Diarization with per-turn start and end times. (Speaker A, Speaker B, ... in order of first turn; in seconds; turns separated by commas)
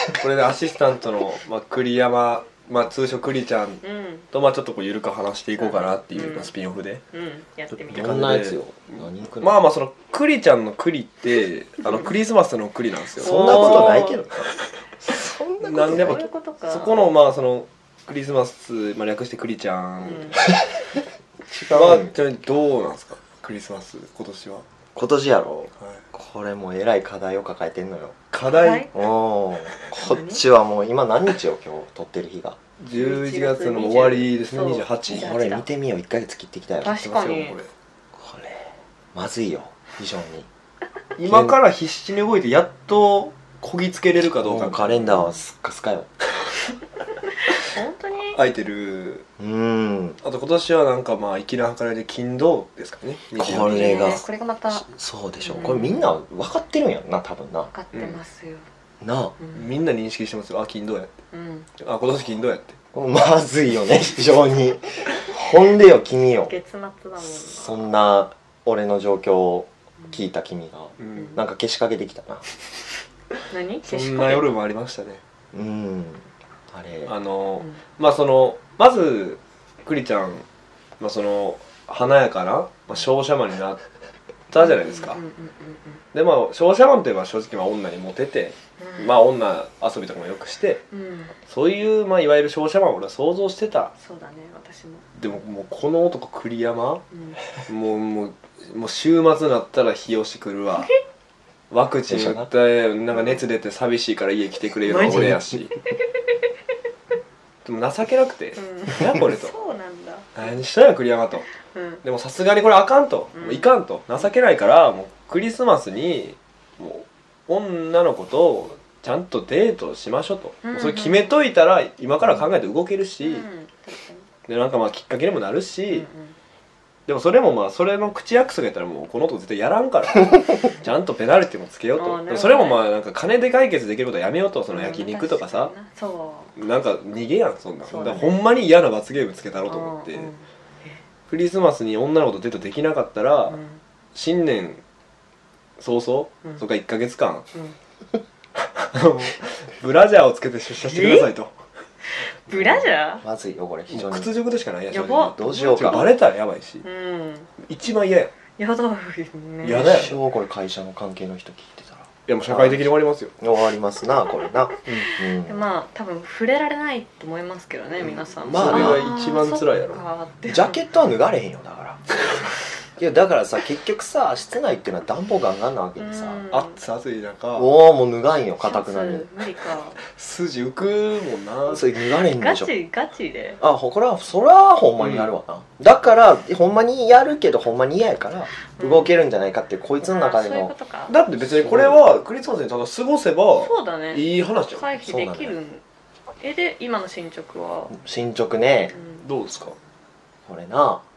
Speaker A: 0.2-7.0, Speaker B: 3.8-4.2, Speaker B: 5.5-6.5, Speaker B: 7.1-8.3, Speaker C: 7.9-9.6, Speaker A: 7.9-14.1, Speaker B: 11.8-12.1, Speaker B: 13.2-14.2, Speaker C: 13.2-16.2, Speaker A: 15.6-20.5, Speaker B: 15.8-17.1, Speaker B: 20.0-20.4, Speaker C: 21.5-22.1, Speaker A: 21.7-24.6, Speaker C: 24.9-28.2, Speaker A: 28.3-28.9, Speaker B: 28.5-28.9, Speaker C: 28.9-32.6, Speaker B: 30.0-30.4, Speaker A: 32.8-35.3, Speaker B: 32.9-35.6, Speaker C: 35.1-37.1, Speaker B: 36.8-37.6, Speaker A: 36.9-37.7, Speaker C: 38.2-40.5, Speaker A: 41.2-45.0, Speaker C: 41.2-41.6, Speaker C: 44.2-46.1, Speaker B: 45.1-45.4, Speaker B: 47.5-48.4, Speaker A: 48.3-49.2, Speaker C: 49.4-50.2, Speaker A: 50.2-54.2, Speaker C: 53.4-57.7, Speaker B: 53.6-54.9, Speaker B: 55.4-56.1, Speaker B: 57.7-58.6, Speaker A: 57.9-58.2, Speaker C: 59.0-59.3, Speaker B: 59.4-59.7, Speaker A: 59.5-61.1, Speaker B: 61.3-61.7, Speaker A: 61.8-62.7, Speaker C: 62.9-66.5, Speaker B: 66.4-67.8, Speaker C: 67.2-72.4, Speaker A: 71.0-71.4, Speaker B: 73.5-74.5, Speaker A: 73.8-75.2, Speaker C: 75.5-77.1, Speaker A: 77.0-80.5, Speaker A: 81.0-83.8, Speaker A: 84.5-85.2, Speaker B: 84.6-86.0, Speaker A: 86.1-90.8, Speaker B: 88.8-89.2, Speaker B: 90.9-91.3, Speaker A: 91.5-93.9, Speaker B: 94.0-95.0, Speaker A: 95.2-97.0, Speaker B: 97.1-97.5, Speaker A: 97.7-100.9, Speaker A: 101.7-105.7, Speaker C: 102.1-102.5, Speaker B: 103.1-103.4, Speaker B: 104.8-105.4, Speaker A: 107.6-109.5, Speaker B: 108.5-110.4, Speaker A: 110.3-111.5, Speaker B: 111.7-112.0, Speaker A: 112.0-123.4, Speaker B: 113.3-113.7, Speaker B: 120.6-121.4, Speaker B: 123.2-124.3, Speaker A: 124.5-126.1, Speaker B: 125.9-126.3, Speaker A: 127.1-135.7, Speaker B: 131.9-132.8, Speaker B: 134.7-136.6, Speaker A: 136.6-140.3, Speaker B: 137.8-138.4, Speaker B: 139.7-141.0, Speaker A: 141.3-143.6, Speaker B: 143.5-143.8, Speaker A: 144.1-144.8, Speaker A: 145.8-147.4, Speaker A: 148.8-151.6, Speaker B: 150.7-151.3, Speaker B: 152.1-153.2, Speaker C: 152.5-154.3, Speaker A: 153.9-156.8, Speaker B: 154.9-155.9, Speaker C: 155.3-156.1, Speaker B: 156.8-157.5, Speaker A: 157.6-158.3, Speaker B: 158.6-159.9, Speaker A: 159.6-160.2, Speaker C: 159.6-165.7, Speaker A: 162.3-163.3, Speaker B: 164.9-170.8, Speaker C: 168.0-169.0, Speaker A: 168.4-170.0, Speaker C: 170.5-172.1, Speaker C: 172.9-176.5, Speaker B: 176.0-176.8, Speaker A: 176.5-177.7, Speaker C: 177.6-179.3, Speaker B: 178.6-180.0, Speaker A: 180.0-181.9, Speaker C: 181.7-182.7, Speaker B: 182.2-183.6, Speaker C: 183.6-190.7, Speaker A: 185.0-185.3, Speaker B: 188.7-189.2, Speaker B: 190.0-191.2, Speaker A: 191.1-194.9, Speaker C: 191.5-192.0, Speaker B: 193.5-195.8, Speaker C: 195.0-195.5, Speaker B: 196.4-197.9, Speaker C: 197.9-198.9, Speaker B: 198.9-199.2, Speaker A: 199.2-199.8, Speaker C: 200.4-201.0